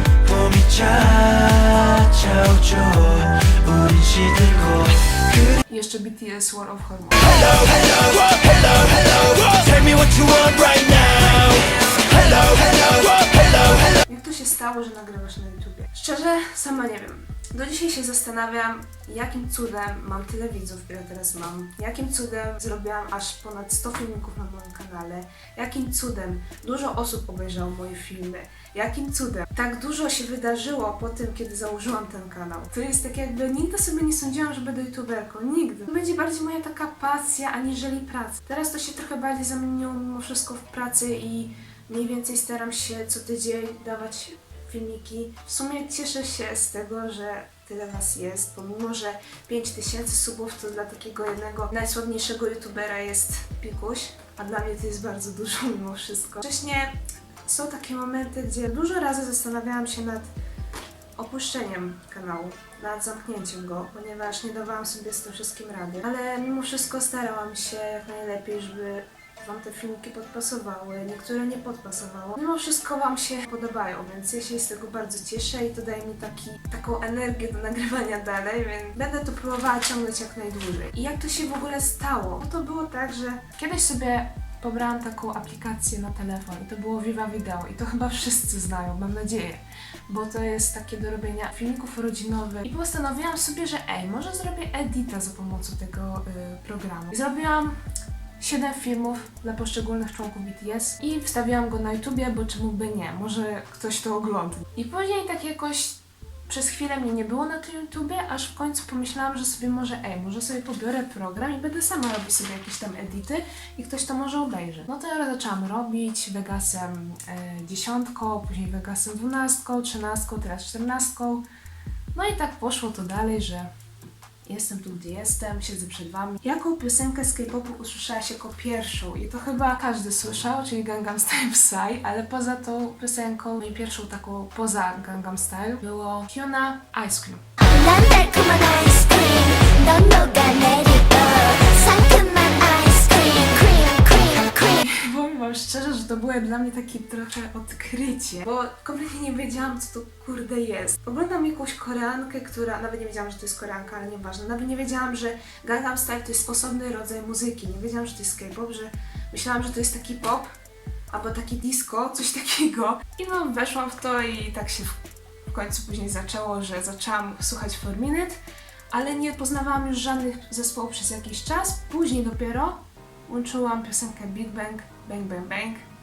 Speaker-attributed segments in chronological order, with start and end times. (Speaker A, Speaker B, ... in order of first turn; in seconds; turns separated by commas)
Speaker A: 0.2-5.6, Speaker B: 5.7-7.7, Speaker A: 7.7-11.6, Speaker B: 11.7-12.3, Speaker A: 12.2-13.6, Speaker B: 13.0-60.3, Speaker B: 61.2-97.8, Speaker B: 98.4-121.5, Speaker B: 122.1-123.7, Speaker B: 124.5-137.4, Speaker C: 137.6-144.7, Speaker B: 144.6-160.5, Speaker B: 161.1-168.4, Speaker B: 168.9-175.8